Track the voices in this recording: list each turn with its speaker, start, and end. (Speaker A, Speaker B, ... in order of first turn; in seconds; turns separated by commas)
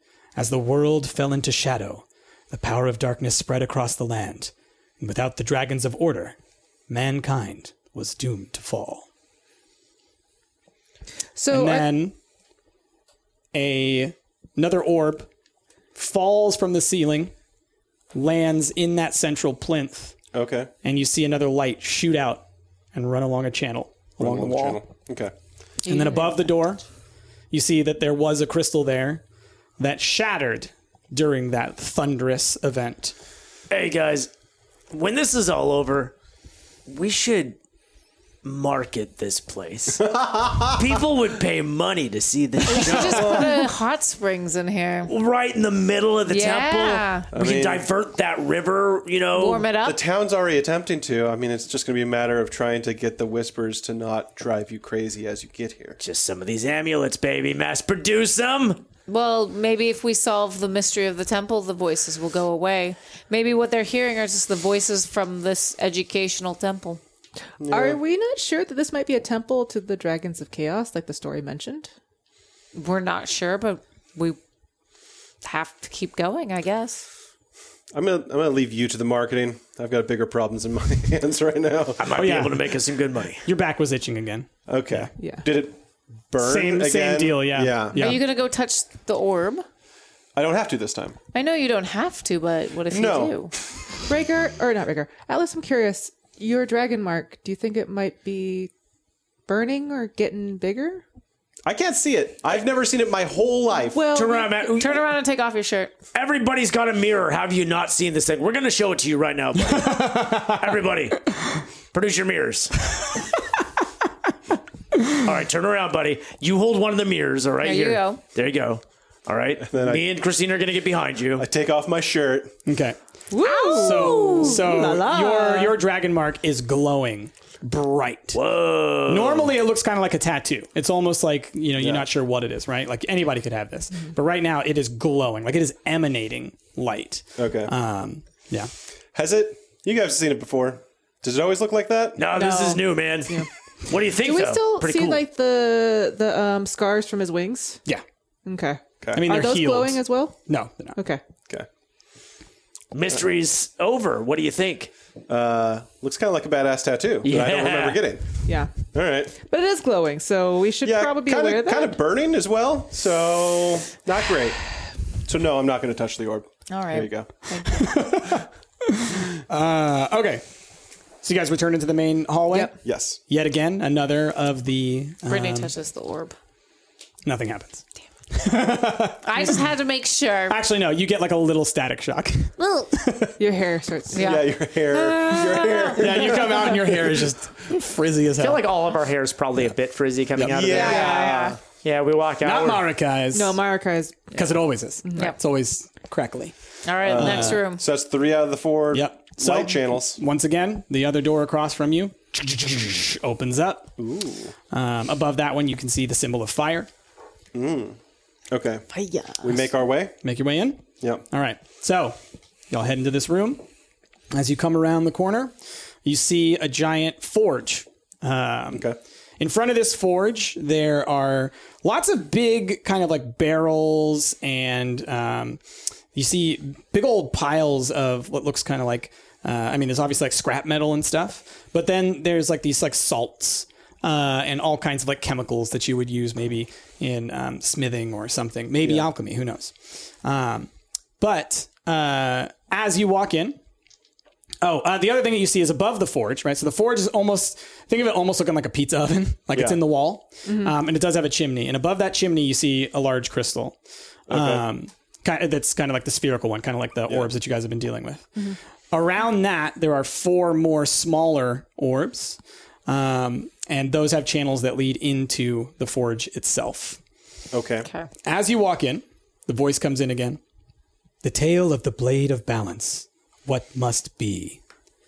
Speaker A: 0.4-6.4, Speaker A: 6.9-9.1, Speaker B: 11.4-11.9, Speaker A: 11.5-12.2, Speaker A: 13.5-15.3, Speaker A: 15.9-17.3, Speaker A: 18.1-20.2, Speaker C: 20.3-20.7, Speaker A: 20.8-24.8, Speaker C: 24.2-25.3, Speaker D: 25.9-26.5, Speaker A: 25.9-26.8, Speaker A: 27.5-29.2, Speaker A: 29.8-33.1, Speaker E: 33.7-34.3, Speaker E: 34.9-36.1, Speaker E: 36.9-37.6, Speaker E: 38.4-43.6, Speaker C: 40.1-40.9, Speaker D: 42.7-45.1, Speaker C: 42.9-43.6, Speaker E: 45.1-49.7, Speaker D: 46.3-47.3, Speaker C: 47.3-47.9, Speaker D: 49.3-50.0, Speaker C: 49.8-56.0, Speaker E: 56.0-58.9, Speaker D: 59.1-67.0, Speaker C: 67.6-68.0, Speaker B: 67.7-71.9, Speaker D: 72.7-74.4, Speaker D: 75.4-77.0, Speaker C: 77.9-82.1, Speaker E: 82.0-83.5, Speaker A: 82.1-82.7, Speaker A: 83.4-85.1, Speaker C: 84.7-85.8, Speaker B: 85.2-85.5, Speaker C: 86.3-88.1, Speaker A: 86.4-88.2, Speaker D: 87.9-89.7, Speaker C: 90.3-91.2, Speaker D: 91.3-93.5, Speaker C: 92.9-93.5, Speaker B: 94.1-98.7, Speaker B: 99.5-101.0, Speaker C: 101.7-104.1, Speaker B: 103.9-104.7, Speaker E: 104.1-105.1, Speaker D: 104.8-106.0, Speaker E: 106.1-111.3, Speaker A: 110.0-110.5, Speaker E: 111.9-112.7, Speaker E: 115.2-121.5, Speaker D: 117.6-118.2, Speaker C: 119.6-120.1, Speaker C: 121.4-122.6, Speaker A: 122.7-123.0, Speaker B: 123.3-125.8, Speaker D: 123.4-124.6, Speaker A: 123.6-128.4, Speaker E: 128.3-129.5, Speaker A: 129.1-138.7, Speaker C: 131.8-132.1, Speaker C: 137.4-137.7, Speaker C: 139.1-142.2, Speaker E: 142.2-145.2, Speaker B: 142.3-143.5, Speaker B: 144.1-147.8, Speaker B: 148.4-151.2, Speaker C: 149.0-149.3, Speaker A: 149.1-151.0, Speaker E: 152.9-154.9, Speaker C: 155.3-159.3, Speaker E: 157.2-158.1, Speaker B: 158.5-158.7, Speaker B: 159.3-162.0, Speaker C: 160.8-164.6, Speaker C: 165.2-167.3, Speaker D: 166.7-168.2, Speaker A: 167.7-170.4, Speaker A: 171.2-175.7, Speaker C: 172.8-173.2, Speaker D: 175.3-176.4, Speaker A: 177.2-179.6, Speaker D: 179.2-180.6, Speaker A: 180.5-183.3, Speaker D: 182.6-182.9, Speaker B: 183.4-184.4, Speaker D: 184.1-186.1, Speaker C: 184.2-187.3, Speaker A: 185.9-188.8, Speaker F: 188.4-192.9, Speaker A: 190.3-190.6, Speaker C: 190.5-191.6, Speaker D: 190.6-191.6, Speaker A: 192.4-193.6, Speaker B: 193.3-195.3, Speaker A: 194.3-196.6, Speaker D: 196.8-197.8, Speaker C: 197.0-200.2, Speaker A: 197.1-197.7, Speaker A: 198.9-203.9, Speaker C: 204.0-204.5, Speaker A: 204.7-206.9, Speaker C: 207.5-208.0, Speaker C: 208.5-208.9, Speaker C: 209.4-210.2, Speaker A: 210.2-212.2, Speaker A: 212.7-213.6, Speaker A: 214.3-215.5, Speaker A: 216.1-218.9, Speaker C: 218.7-219.0, Speaker A: 219.4-225.6, Speaker A: 226.1-243.6, Speaker C: 238.8-239.1, Speaker A: 244.6-253.8, Speaker C: 249.5-249.8, Speaker B: 250.5-250.7, Speaker C: 254.3-254.7, Speaker A: 254.3-258.3, Speaker A: 258.9-267.0, Speaker C: 267.5-267.9, Speaker A: 268.2-270.4, Speaker A: 271.2-274.6